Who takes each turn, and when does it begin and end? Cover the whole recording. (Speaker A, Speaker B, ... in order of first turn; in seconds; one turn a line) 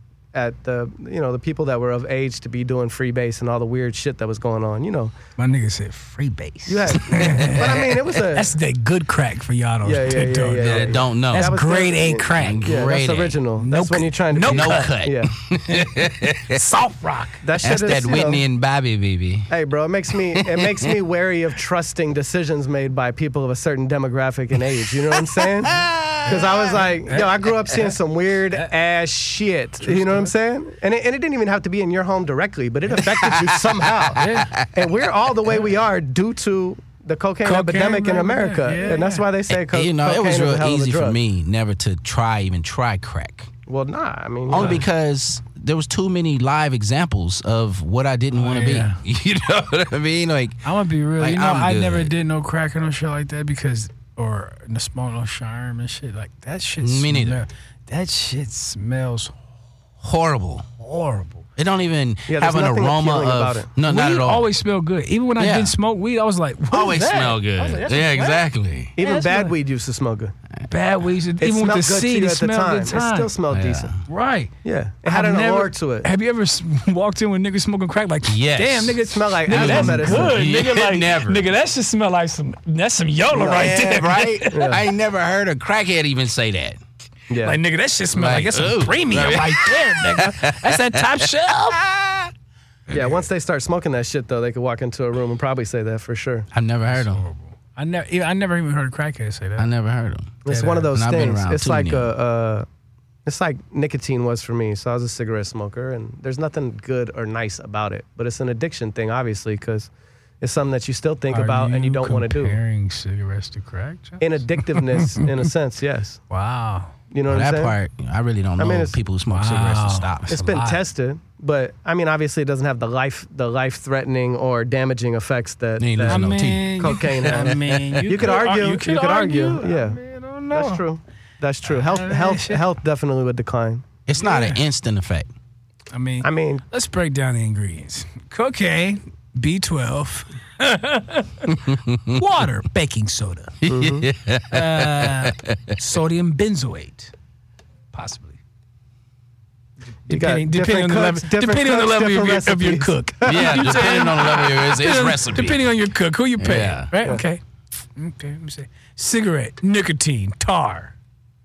Speaker A: 0.3-5.1
Speaker B: 5.4-12.9
Speaker A: 6.7-8.5
Speaker A: 9.8-15.3
Speaker C: 10.6-11.6
Speaker C: 12.3-13.4
Speaker B: 13.6-15.0
Speaker C: 14.4-16.6
Speaker B: 15.5-17.4
Speaker A: 17.4-18.4
Speaker C: 17.6-19.5
Speaker A: 19.5-41.2
Speaker C: 20.3-20.9
Speaker C: 25.1-26.8
Speaker B: 26.2-27.4
Speaker B: 29.8-30.3
Speaker C: 33.2-34.9
Speaker B: 34.1-34.6
Speaker B: 37.4-39.3
Speaker C: 39.5-43.5
Speaker A: 43.7-44.8
Speaker C: 44.5-50.6
Speaker B: 44.5-44.8
Speaker B: 48.3-49.0
Speaker B: 50.6-59.5
Speaker C: 51.2-52.1
Speaker C: 56.8-57.4
Speaker C: 60.0-60.6
Speaker B: 60.8-61.5
Speaker C: 61.5-64.5
Speaker A: 62.3-63.7
Speaker B: 63.8-69.5
Speaker C: 65.4-65.8
Speaker C: 66.7-68.9
Speaker A: 69.0-70.3
Speaker B: 70.7-73.3
Speaker A: 71.4-73.9
Speaker C: 73.5-74.0
Speaker B: 74.0-74.5
Speaker A: 74.6-76.1
Speaker B: 75.0-84.8
Speaker C: 78.2-81.4
Speaker A: 79.0-80.4
Speaker A: 83.3-83.8
Speaker C: 83.4-86.8
Speaker A: 84.5-84.8
Speaker A: 87.3-87.6
Speaker B: 87.4-91.8
Speaker C: 88.1-92.3
Speaker A: 92.9-96.5
Speaker B: 92.9-93.2
Speaker C: 96.5-97.2
Speaker B: 96.9-99.7
Speaker C: 99.6-102.1
Speaker A: 100.4-102.7
Speaker B: 100.5-100.9
Speaker A: 103.2-109.9
Speaker A: 110.4-112.6
Speaker B: 111.3-115.2
Speaker A: 114.2-116.2
Speaker B: 116.3-117.0
Speaker A: 117.1-117.7
Speaker C: 117.3-120.5
Speaker A: 118.6-119.0
Speaker B: 119.3-120.8
Speaker A: 120.3-130.0
Speaker C: 125.8-128.2
Speaker B: 126.0-130.8
Speaker A: 130.5-133.8
Speaker B: 131.6-132.6
Speaker C: 134.1-135.3
Speaker B: 134.1-134.6
Speaker B: 135.9-143.6
Speaker A: 136.2-136.6
Speaker C: 141.5-142.2
Speaker C: 143.6-145.8
Speaker A: 143.7-144.1
Speaker B: 144.5-147.1
Speaker B: 147.9-148.4
Speaker A: 150.1-154.0
Speaker B: 150.1-157.4
Speaker C: 153.2-155.7
Speaker C: 156.4-156.9
Speaker B: 157.9-160.9